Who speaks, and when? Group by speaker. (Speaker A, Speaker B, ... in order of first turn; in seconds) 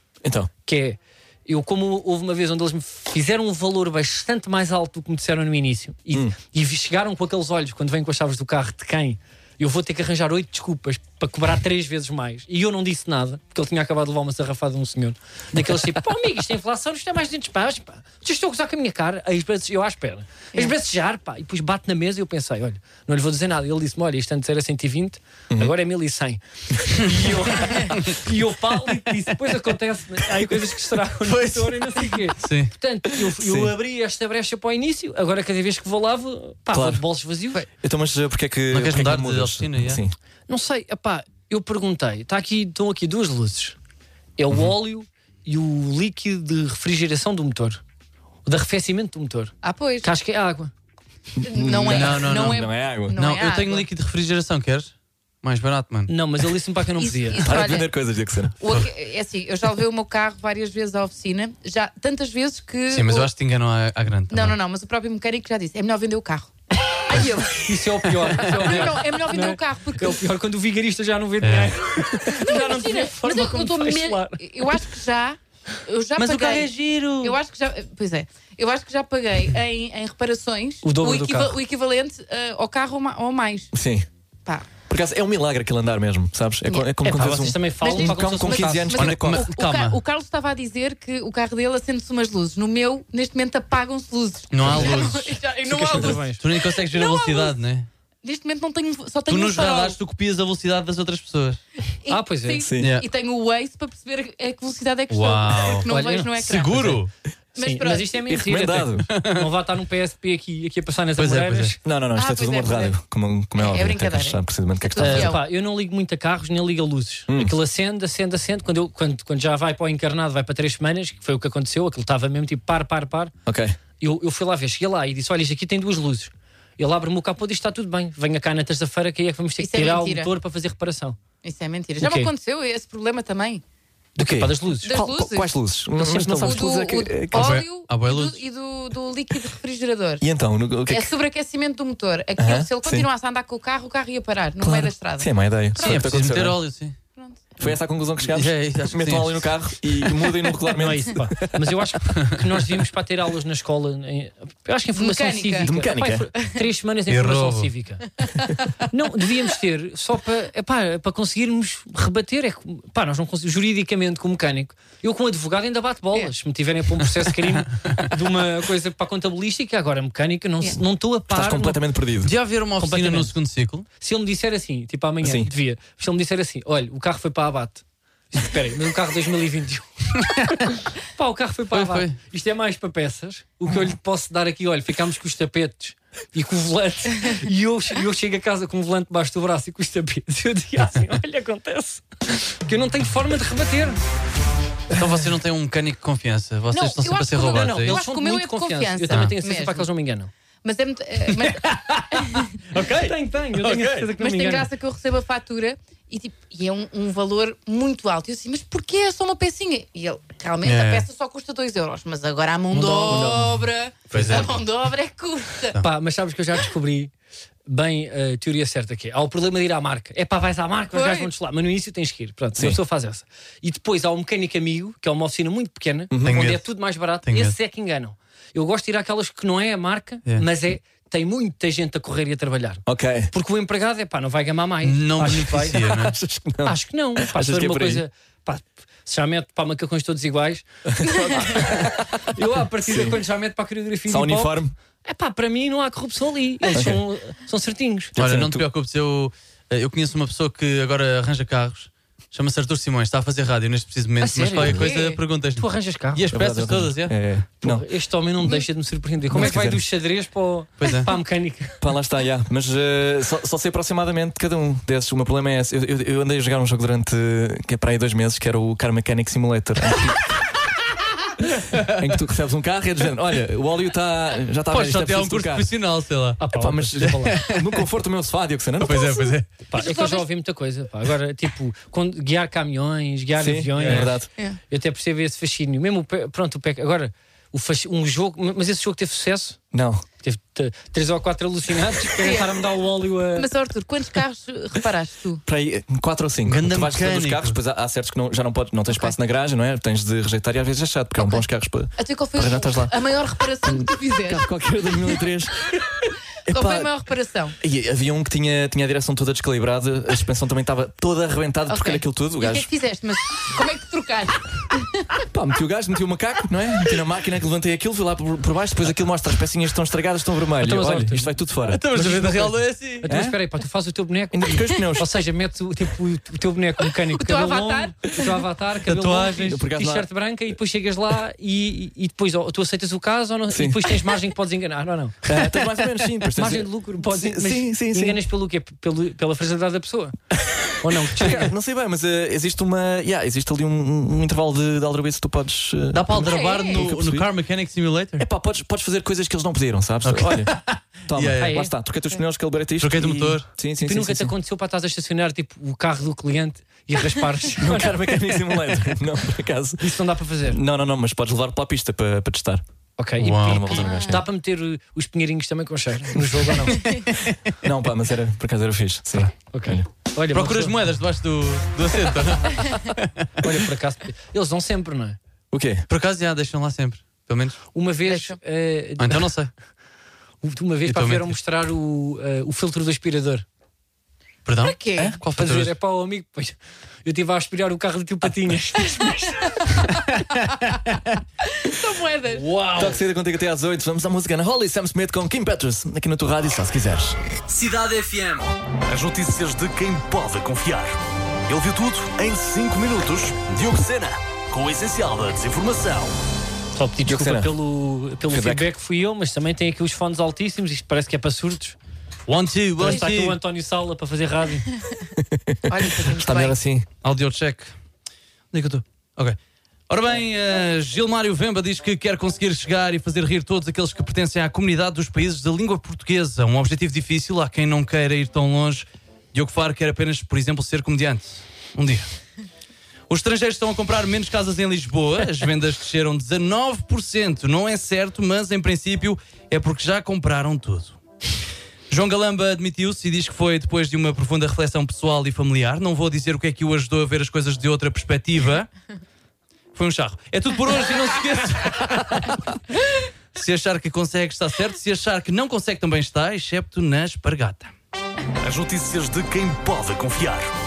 Speaker A: 0.2-0.5, 33.2-33.7, 36.7-37.0, 37.7-40.1, 51.4-53.2, 57.4-58.6, 83.7-84.1, 84.9-89.5, 94.7-94.9, 102.5-102.9, 108.3-109.1, 111.8-115.4, 117.3-117.5, 123.5-123.8, 134.2-137.6, 140.2-141.1, 142.4-143.1, 144.6-146.6, 147.6-151.8, 155.6-156.3, 171.3-172.3, 175.2-175.5, 213.1-213.4, 226.1-226.5, 232.8-233.3, 235.7-238.0, 240.8-243.2, 244.1-244.7, 246.7-247.0, 248.1-248.7, 256.3-257.9, 259.3-259.8, 261.8-270.4, 271.4-275.7, 276.5-279.3, 283.4-284.3, 289.7-290.0, 295.4-302.9, 303.6-305.9, 306.4-306.9, 307.6-312.7, 315.3-321.9, 323.0-323.4, 324.3-325.2, 329.2-330.1, 333.5-334.0, 335.2-338.2, 340.4-347.3, 348.2-350.6, 351.1-354.3, 357.5-362.6, 363.3-364.2, 367.6-369.8, 375.5-375.9, 392.7-397.2, 407.0-407.5, 408.3-408.7, 415.1-416.9
Speaker B: 0.6-37.6, 40.5-43.8, 44.4-47.8, 48.5-50.7, 56.1-57.5, 67.1-74.6, 80.8-81.6, 87.0-89.0, 95.6-96.4, 102.1-102.6, 105.8-106.3, 107.6-111.8, 115.0-123.3, 124.0-131.2, 132.0-132.3, 134.2-134.9, 135.9-136.7, 150.7-158.1, 158.9-171.8, 172.8-173.3, 174.0-194.0, 197.3-200.3, 202.7-204.7, 212.7-213.5, 214.1-214.6, 215.8-217.1, 217.7-235.9, 236.6-240.7, 241.3-248.1, 254.2-255.0, 255.5-256.2, 257.6-261.8, 276.4-277.4, 279.7-289.6, 290.2-293.5, 320.6-321.3, 321.9-340.2, 340.8-341.5, 351.4-351.7, 353.8-358.1, 359.8-360.6, 363.0-366.9, 369.5-370.8, 373.4-375.2, 377.7-379.3, 380.4-383.4, 385.3-389.4, 406.7-411.8, 412.8-414.7
Speaker C: 31.2-32.7, 38.7-40.0, 51.8-56.1, 62.9-64.5, 68.2-69.0, 71.4-71.8, 76.2-77.3, 88.9-90.0, 94.5-95.4, 95.9-97.9, 99.3-101.6, 102.8-103.1, 105.1-107.1, 109.1-109.4, 111.2-111.8, 137.3-138.4, 145.8-147.0, 148.2-149.6, 157.1-157.7, 172.2-173.8, 181.7-182.2, 194.9-198.0, 201.3-204.1, 210.6-211.1, 212.8-213.4, 214.1-214.6, 226.2-226.7, 227.2-227.5, 234.8-236.2, 248.2-257.1, 260.8-261.1, 274.7-276.4, 277.0-277.8, 278.8-279.5, 283.8-284.1, 296.4-297.6, 321.7-323.1, 328.9-329.6, 345.9-348.2, 350.0-351.6, 352.8-353.4, 363.2-363.8, 367.1-367.4, 370.3-373.3, 375.9-377.6, 379.0-379.5, 380.9-381.3, 384.4-385.7, 392.3-393.0, 412.3-413.4, 417.0-417.7, 418.5-419.4, 419.9-432.1, 433.1-441.0, 441.9-448.7, 449.7-452.5, 453.3-457.7
Speaker D: 49.6-50.1, 51.4-53.9, 57.0-57.9, 58.6-63.3, 64.3-66.5, 68.3-70.2, 72.3-83.7, 87.8-97.5, 98.2-100.0, 102.0-107.0, 107.5-108.2, 112.1-113.0, 113.5-115.4, 129.6-130.3, 131.4-133.6, 134.8-135.5, 136.3-140.2, 140.9-146.1, 147.2-147.4, 154.9-155.8, 158.2-158.6, 196.7-199.9, 200.6-202.5, 204.2-215.8, 220.9-221.3, 254.6-255.2, 279.7-280.3, 292.2-292.5, 293.4-295.4, 298.9-299.1, 301.2-301.4, 302.0-304.5, 306.5-307.6, 311.7-315.2, 327.1-328.1, 346.2-346.8, 363.7-364.2, 378.1-378.4, 384.6-385.2, 389.0-389.8, 391.4-392.4, 415.7-416.6
Speaker E: 397.5-406.1, 458.4-460.5